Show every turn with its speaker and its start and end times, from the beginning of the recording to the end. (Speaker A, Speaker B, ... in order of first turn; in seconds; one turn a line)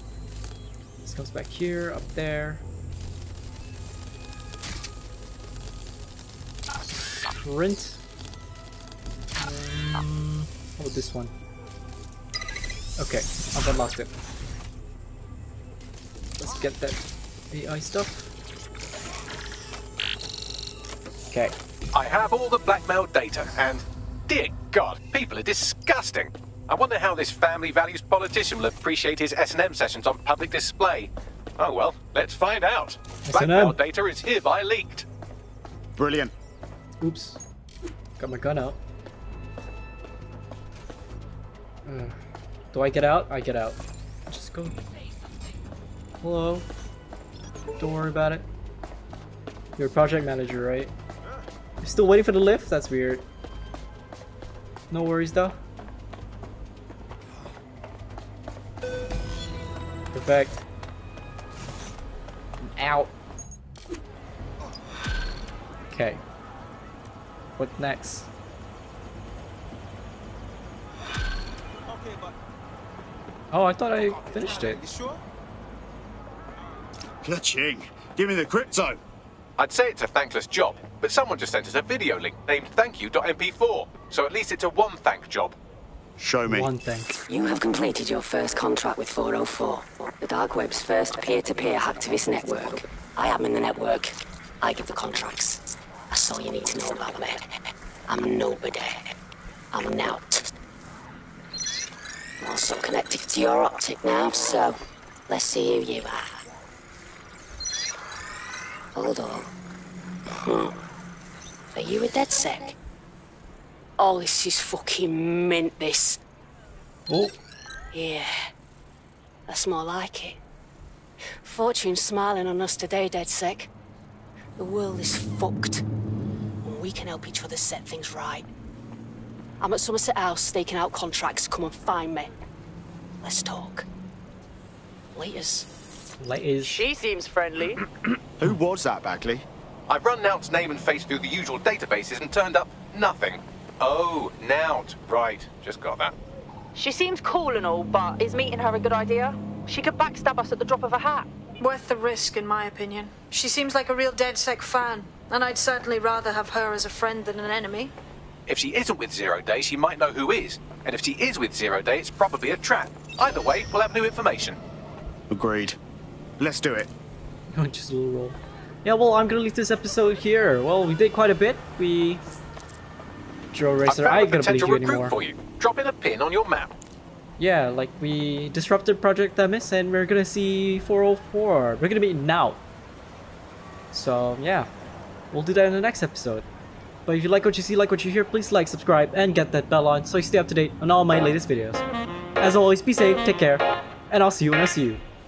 Speaker A: 1.0-2.6
Speaker A: 7.4-8.0
Speaker A: 9.4-11.3
Speaker A: 13.0-14.1
Speaker A: 16.4-18.3
Speaker B: 21.9-35.1
Speaker A: 33.3-33.8
Speaker C: 36.0-36.3
Speaker A: 37.0-37.4
Speaker A: 38.2-38.8
Speaker A: 41.9-42.2
Speaker A: 42.7-44.8
Speaker A: 46.2-46.7
Speaker A: 47.8-48.5
Speaker A: 49.8-50.9
Speaker A: 51.8-53.2
Speaker A: 54.9-55.6
Speaker A: 60.1-60.6
Speaker A: 62.6-63.1
Speaker A: 65.9-66.2
Speaker A: 67.6-68.3
Speaker A: 73.5-74.9
Speaker C: 77.2-79.0
Speaker B: 79.6-85.6
Speaker C: 86.2-86.7
Speaker A: 86.5-87.2
Speaker D: 87.3-97.4
Speaker D: 98.1-99.1
Speaker D: 99.7-100.5
Speaker D: 102.4-106.4
Speaker D: 109.0-109.5
Speaker D: 111.8-112.8
Speaker E: 112.0-112.7
Speaker E: 114.0-116.2
Speaker A: 117.1-117.3
Speaker E: 117.9-118.5
Speaker E: 119.5-120.4
Speaker E: 121.4-123.7
Speaker E: 124.6-125.8
Speaker E: 126.6-128.5
Speaker E: 129.6-132.3
Speaker E: 133.2-133.9
Speaker E: 135.1-135.7
Speaker A: 136.2-136.8
Speaker F: 136.6-137.8
Speaker C: 138.4-139.4
Speaker B: 139.9-146.2
Speaker F: 146.8-151.3
Speaker G: 151.6-157.9
Speaker B: 158.5-164.6
Speaker C: 165.3-165.8
Speaker C: 166.4-166.9
Speaker A: 167.5-172.2
Speaker A: 173.5-175.2
Speaker B: 173.9-176.8
Speaker A: 177.4-182.6
Speaker A: 183.9-184.7
Speaker A: 185.3-186.5
Speaker A: 187.1-191.8
Speaker A: 192.4-195.0